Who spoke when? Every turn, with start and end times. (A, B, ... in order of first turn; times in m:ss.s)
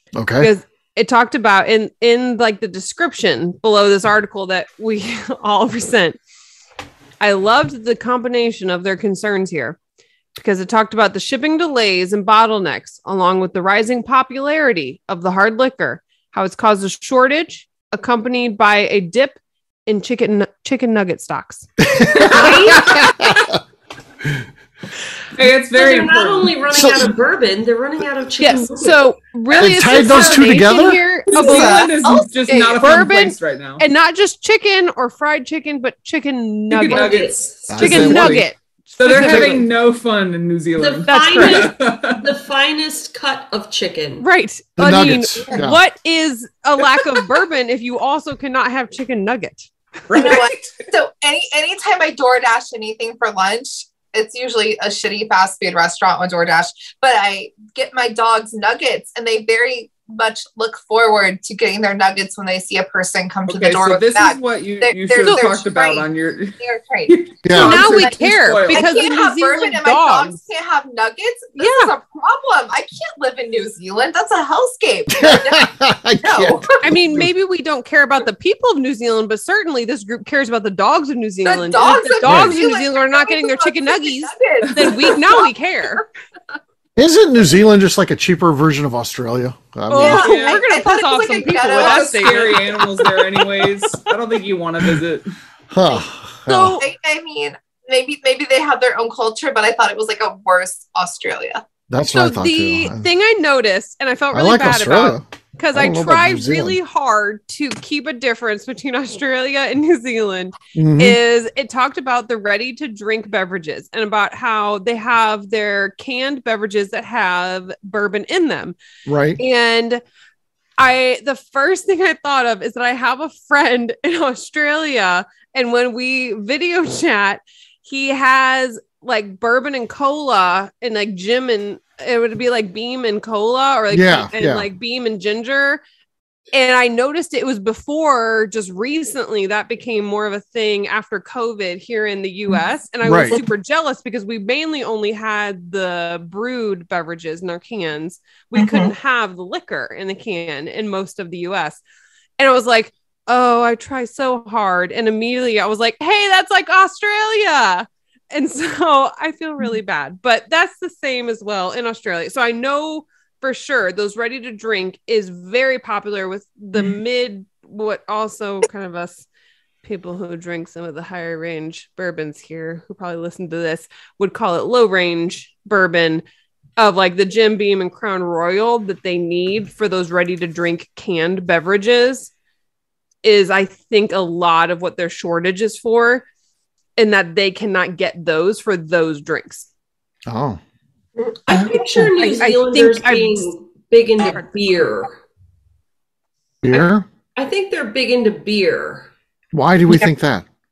0:00.1-0:00.5 A
0:00.4-0:06.2 B
0:07.2-0:09.8 B
0:10.4-0:23.3 B
0:22.2-0:23.1 C
0:22.3-0:23.3 D
0:25.4-0:26.8 D
0:25.7-0:29.1 C
0:26.7-0:27.1 A
0:28.4-0:32.0 B
0:29.5-0:31.0 A
0:29.9-0:30.6 D
0:31.3-0:33.8 D
0:31.3-0:32.8 E
0:32.8-0:39.6 B
0:36.7-0:38.4 D
0:36.9-0:38.4 C
0:37.7-0:38.4 A
0:39.0-0:42.2 D
0:39.1-0:39.6 A
0:40.8-0:44.2 C
0:41.1-0:41.7 B
0:44.2-0:49.7 B
0:44.8-0:45.8 A
0:50.1-0:50.7 D
0:50.1-1:06.1 E
1:03.5-1:08.9 D
1:05.2-1:05.5 B
1:06.6-1:08.2 E
1:07.4-1:08.0 A
1:07.5-1:10.4 B
1:08.7-1:16.8 E
1:11.6-1:11.9 B
1:15.1-1:17.3 A
1:16.8-1:26.0 B
1:21.4-1:25.5 E
1:22.2-1:22.6 A
1:27.0-1:30.3 A
1:29.9-1:30.6 D
1:29.9-1:32.9 B
1:30.0-1:33.4 E
1:31.5-1:35.3 D
1:35.7-1:36.8 A
1:36.5-1:36.8 B
1:36.8-1:41.6 E
1:41.9-1:43.1 A
1:42.1-1:58.8 B
1:44.3-1:46.8 A
1:50.8-1:51.2 A
1:59.1-1:59.4 A
1:59.4-2:00.0 B
2:00.8-2:15.8 B
2:13.9-2:14.7 A
2:16.5-2:31.8 B
2:23.0-2:23.4 A
2:28.6-2:28.9 E
2:32.4-2:49.2 B
2:49.8-2:56.2 B
2:56.8-3:02.3 B
3:03.2-3:06.2 B
3:07.0-3:09.7 B
3:10.3-3:10.6 A
3:11.2-3:12.1 E
3:11.5-3:15.1 C
3:12.2-3:13.5 B
3:16.6-3:17.0 A
3:17.4-3:19.1 C
3:19.5-3:20.5 A